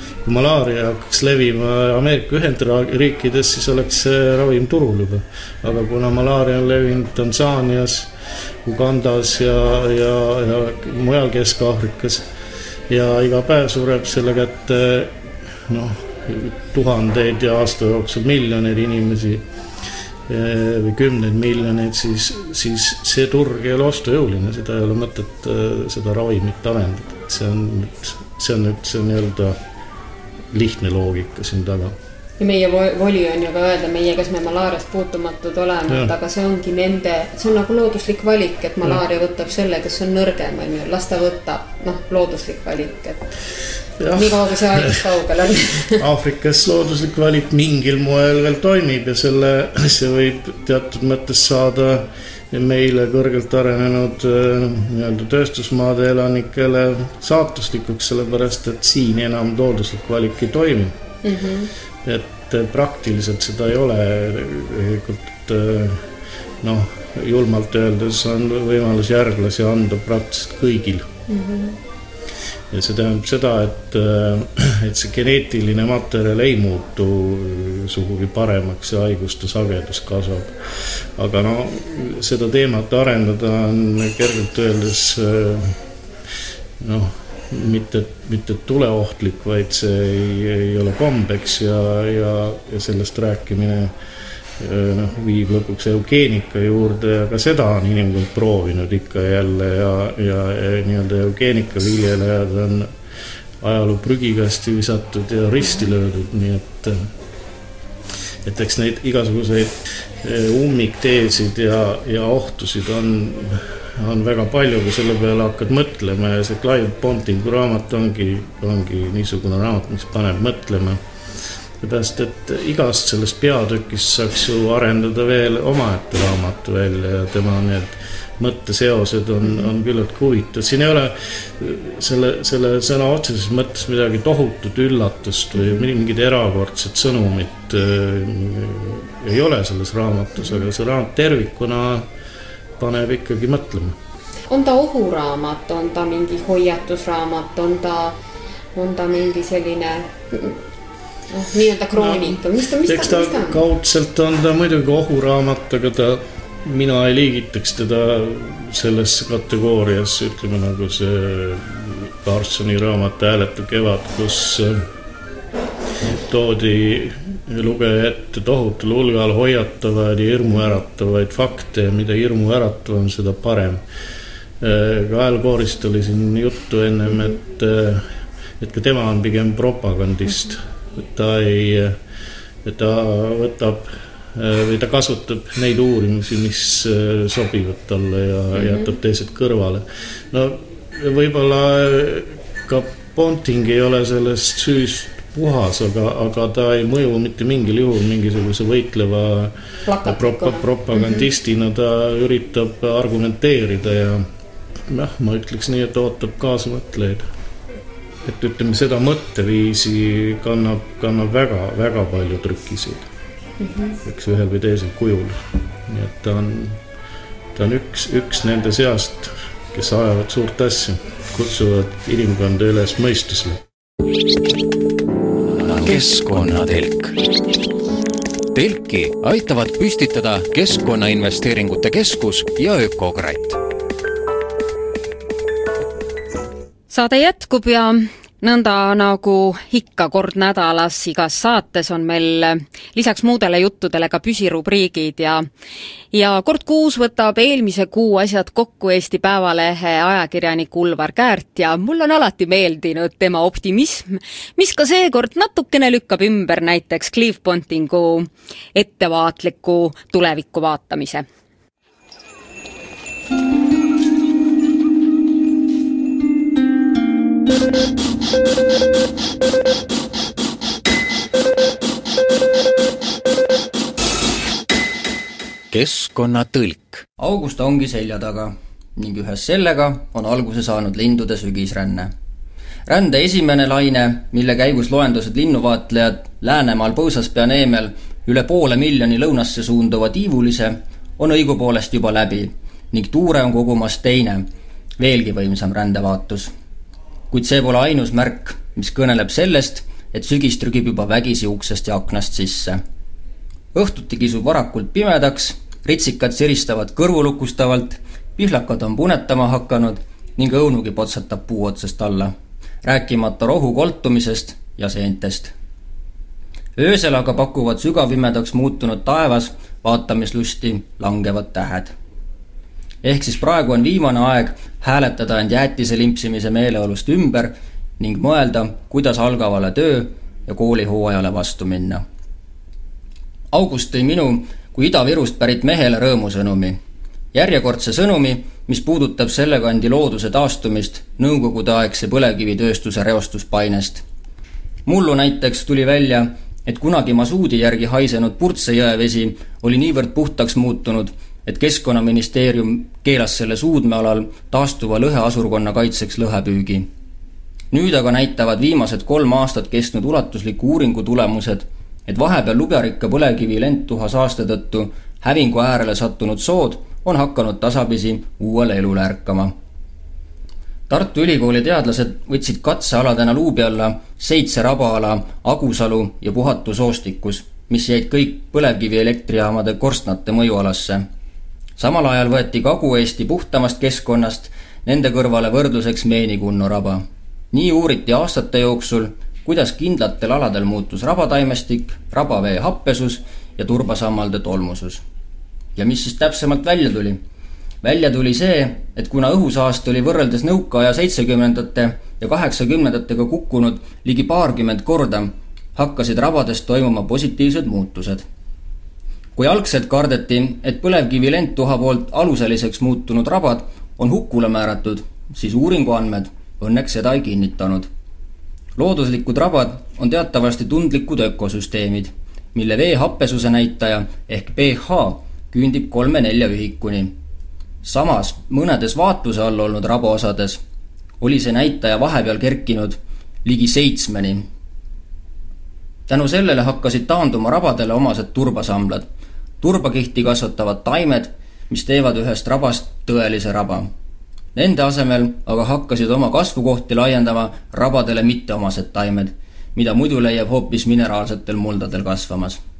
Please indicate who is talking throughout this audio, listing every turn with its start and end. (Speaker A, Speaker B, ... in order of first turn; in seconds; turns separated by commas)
Speaker A: 0.2-8.1, Speaker A: 8.6-12.2, Speaker A: 12.9-19.4, Speaker A: 20.3-29.6, Speaker A: 30.5-32.0, Speaker B: 32.4-43.3, Speaker A: 44.0-45.0, Speaker B: 44.1-46.0, Speaker A: 45.9-61.0, Speaker B: 61.2-61.7, Speaker A: 62.0-66.1, Speaker A: 66.6-71.1, Speaker B: 71.3-71.8, Speaker A: 72.7-85.8, Speaker A: 86.8-93.9, Speaker A: 94.6-102.9, Speaker A: 103.6-107.1, Speaker A: 108.4-121.0, Speaker A: 121.8-142.1, Speaker A: 142.8-144.0, Speaker B: 144.5-148.2, Speaker B: 148.7-150.6, Speaker B: 151.3-153.6, Speaker A: 152.0-164.8, Speaker A: 166.0-173.8, Speaker A: 174.6-178.1, Speaker A: 178.6-182.0, Speaker A: 182.6-204.2, Speaker B: 188.5-188.9, Speaker B: 199.8-201.2, Speaker A: 204.9-207.3, Speaker A: 208.2-213.1, Speaker B: 213.6-214.0, Speaker A: 214.0-216.8, Speaker A: 217.5-223.6, Speaker C: 225.4-227.2, Speaker C: 228.5-233.6, Speaker B: 236.9-245.5, Speaker B: 246.1-261.2, Speaker C: 275.7-277.0, Speaker D: 277.2-282.1, Speaker D: 282.9-294.5, Speaker D: 295.0-296.5, Speaker D: 297.3-302.8, Speaker D: 303.7-315.5, Speaker D: 316.8-321.9, Speaker D: 323.0-332.0, Speaker D: 333.5-336.8, Speaker D: 337.3-344.0, Speaker D: 344.9-356.9, Speaker D: 357.7-369.5, Speaker D: 370.9-381.1, Speaker D: 381.8-395.0, Speaker D: 395.8-397.2, Speaker D: 397.8-408.2, Speaker D: 409.4-417.9, Speaker D: 418.8-427.2, Speaker D: 427.8-430.6, Speaker D: 431.2-434.5, Speaker D: 436.1-439.1, Speaker D: 439.6-443.9, Speaker D: 444.5-452.6